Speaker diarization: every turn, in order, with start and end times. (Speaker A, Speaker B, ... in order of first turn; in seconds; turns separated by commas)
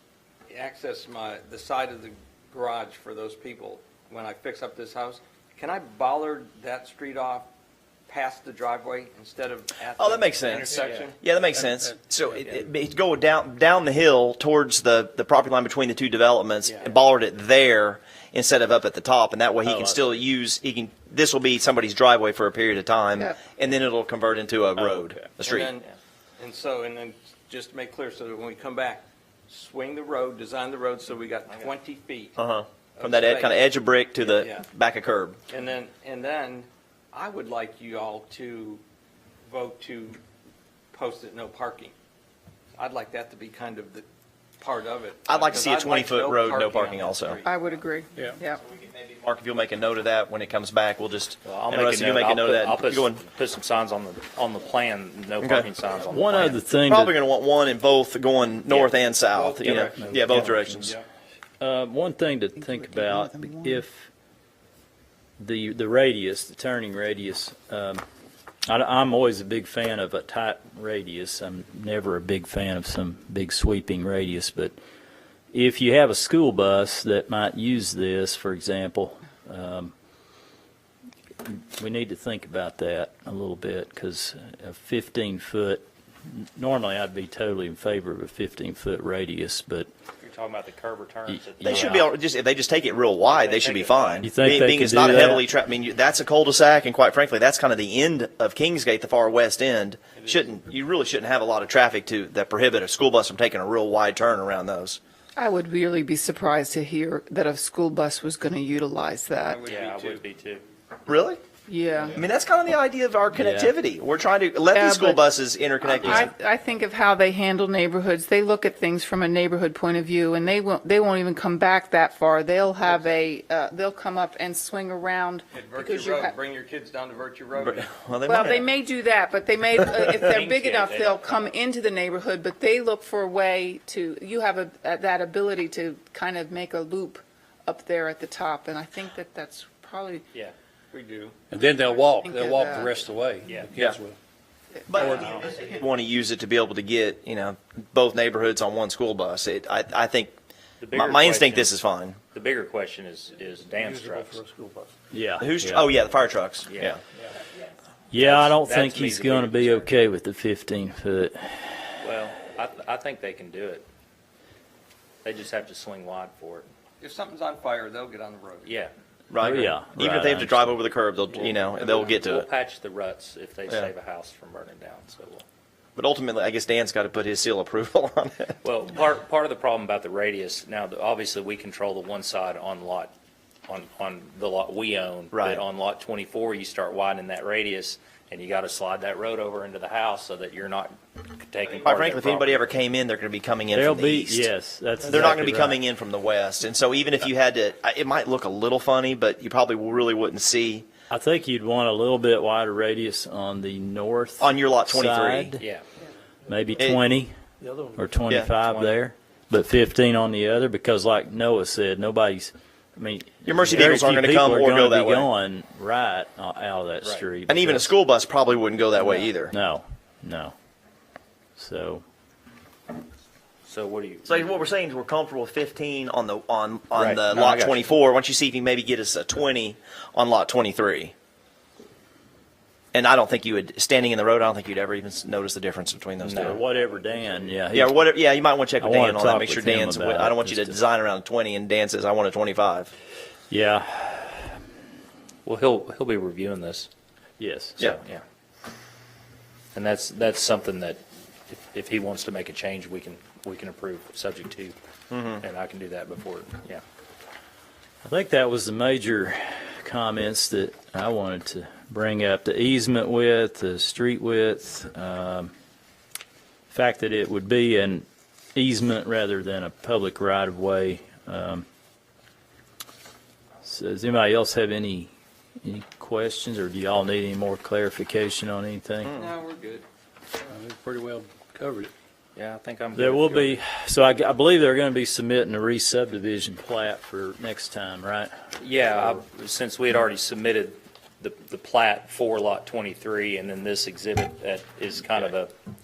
Speaker A: 0.5-7.5, Speaker A: 8.1-11.2, Speaker B: 10.0-25.7, Speaker C: 10.8-11.0, Speaker A: 16.6-16.9, Speaker D: 19.6-20.2, Speaker A: 25.4-25.9, Speaker A: 26.4-32.4, Speaker B: 32.4-35.4, Speaker A: 33.0-34.7, Speaker A: 35.5-38.8, Speaker A: 39.5-40.2, Speaker A: 40.9-41.9, Speaker A: 42.8-44.1, Speaker A: 44.6-47.8, Speaker B: 45.3-47.4, Speaker E: 47.5-48.6, Speaker B: 48.6-53.2, Speaker C: 51.4-56.6, Speaker B: 55.4-55.7, Speaker D: 56.1-57.1, Speaker B: 56.8-60.9, Speaker A: 59.3-60.2, Speaker D: 61.6-64.1, Speaker E: 62.5-63.8, Speaker D: 65.4-68.0, Speaker D: 68.7-74.7, Speaker D: 75.5-79.9, Speaker D: 81.5-89.9, Speaker C: 90.2-92.1, Speaker D: 91.3-92.0, Speaker B: 91.6-105.0, Speaker C: 93.2-94.3, Speaker D: 94.2-95.4, Speaker E: 105.3-109.6, Speaker A: 109.4-110.2, Speaker C: 109.6-110.6, Speaker B: 111.1-111.4, Speaker E: 111.7-112.2, Speaker B: 112.1-116.3, Speaker C: 113.3-113.7, Speaker E: 114.7-115.3, Speaker E: 115.8-126.3, Speaker A: 122.8-123.1, Speaker A: 125.5-127.9, Speaker B: 127.6-128.7, Speaker E: 128.3-140.2, Speaker C: 130.2-131.5, Speaker A: 140.9-141.3, Speaker F: 141.5-144.2, Speaker E: 141.7-143.1, Speaker C: 143.4-143.8, Speaker B: 143.7-144.0, Speaker B: 144.9-150.3, Speaker F: 145.0-145.3, Speaker C: 150.8-151.8, Speaker B: 150.9-152.2, Speaker C: 152.3-154.4, Speaker F: 153.8-154.9, Speaker D: 155.1-155.9, Speaker B: 155.4-157.0, Speaker C: 156.7-157.0, Speaker D: 158.1-161.9, Speaker C: 158.2-159.8, Speaker C: 162.0-163.8, Speaker C: 165.2-166.7, Speaker A: 167.0-168.7, Speaker C: 168.7-168.9, Speaker B: 169.3-172.4, Speaker D: 169.4-170.8, Speaker C: 171.3-175.4, Speaker B: 175.9-178.6, Speaker C: 178.6-183.1, Speaker C: 183.7-192.8, Speaker B: 185.3-185.6, Speaker B: 191.6-194.5, Speaker D: 193.7-195.8, Speaker B: 195.0-200.9, Speaker D: 201.1-205.6, Speaker B: 204.4-205.5, Speaker D: 206.5-207.3, Speaker F: 207.6-208.0, Speaker D: 207.9-217.9, Speaker B: 208.3-208.5, Speaker C: 208.7-208.9, Speaker B: 213.4-215.3, Speaker C: 217.0-217.3, Speaker B: 217.5-219.5, Speaker D: 219.5-220.5, Speaker D: 221.6-222.0, Speaker C: 223.6-224.5, Speaker B: 224.2-231.1, Speaker C: 226.9-227.8, Speaker B: 232.9-236.6, Speaker C: 236.2-236.6, Speaker D: 236.3-238.0, Speaker B: 237.7-242.9, Speaker D: 238.8-240.8, Speaker D: 243.5-244.5, Speaker C: 245.4-246.9, Speaker D: 247.4-247.8, Speaker C: 247.8-248.2, Speaker C: 249.7-254.8, Speaker B: 255.1-255.4, Speaker C: 255.4-256.8, Speaker D: 258.0-265.5, Speaker D: 266.7-271.6, Speaker D: 273.6-275.1, Speaker D: 275.6-279.1, Speaker A: 279.1-279.9, Speaker F: 280.5-281.9, Speaker C: 282.4-283.6, Speaker D: 282.9-288.3, Speaker C: 288.6-295.5